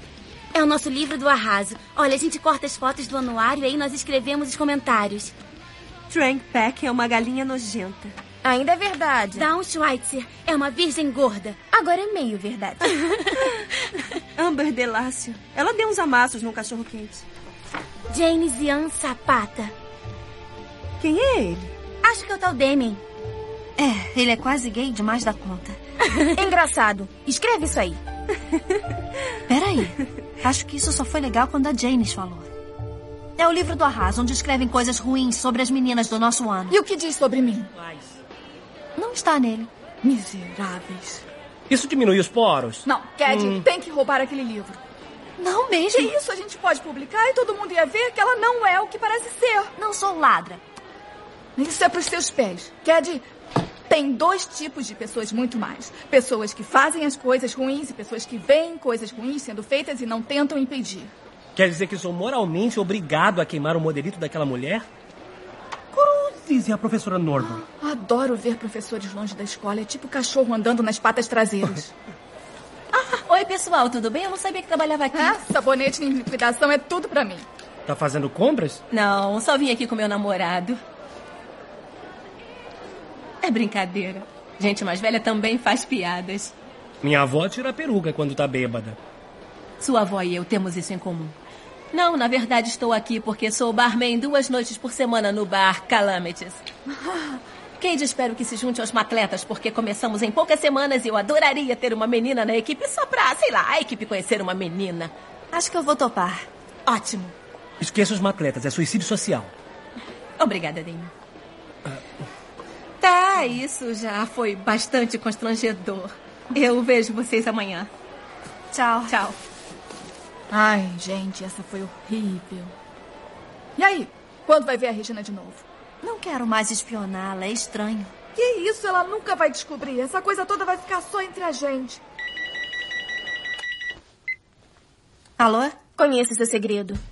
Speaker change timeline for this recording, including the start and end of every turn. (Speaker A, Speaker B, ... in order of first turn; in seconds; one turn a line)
Speaker A: 0.5-5.3
Speaker B: 6.1-8.1
Speaker C: 8.4-9.5
Speaker A: 9.3-11.6
Speaker C: 11.7-12.9
Speaker B: 14.3-17.2
Speaker A: 18.1-19.7
Speaker B: 21.0-21.7
Speaker A: 22.0-23.0
Speaker D: 23.8-25.8
Speaker C: 26.3-28.0
Speaker D: 29.5-32.5
Speaker D: 33.4-36.7
Speaker E: 36.7-37.7
Speaker D: 39.0-39.7
Speaker E: 40.0-41.2
Speaker F: 41.7-43.6
Speaker E: 42.9-44.8
Speaker D: 45.4-46.1
Speaker E: 45.9-49.7
Speaker D: 49.8-50.6
Speaker E: 51.6-53.2
Speaker E: 53.9-61.1
Speaker F: 61.5-64.9
Speaker F: 65.9-67.6
Speaker E: 67.4-71.9
Speaker G: 72.9-75.4
Speaker E: 75.1-77.4
Speaker F: 77.9-78.8
Speaker G: 78.9-80.8
Speaker G: 83.4-86.5
Speaker F: 87.0-89.0
Speaker G: 89.8-91.3
Speaker G: 91.9-96.6
Speaker G: 97.8-105.1
Speaker D: 105.5-106.5
Speaker G: 106.9-107.3
Speaker F: 107.8-109.5
Speaker G: 110.4-111.1
Speaker G: 113.0-117.9
Speaker D: 118.7-119.2
Speaker G: 119.1-119.3
Speaker E: 120.5-122.7
Speaker E: 123.8-125.6
Speaker D: 126.0-128.1
Speaker E: 128.3-132.0
Speaker D: 135.4-135.8
Speaker C: 135.9-137.0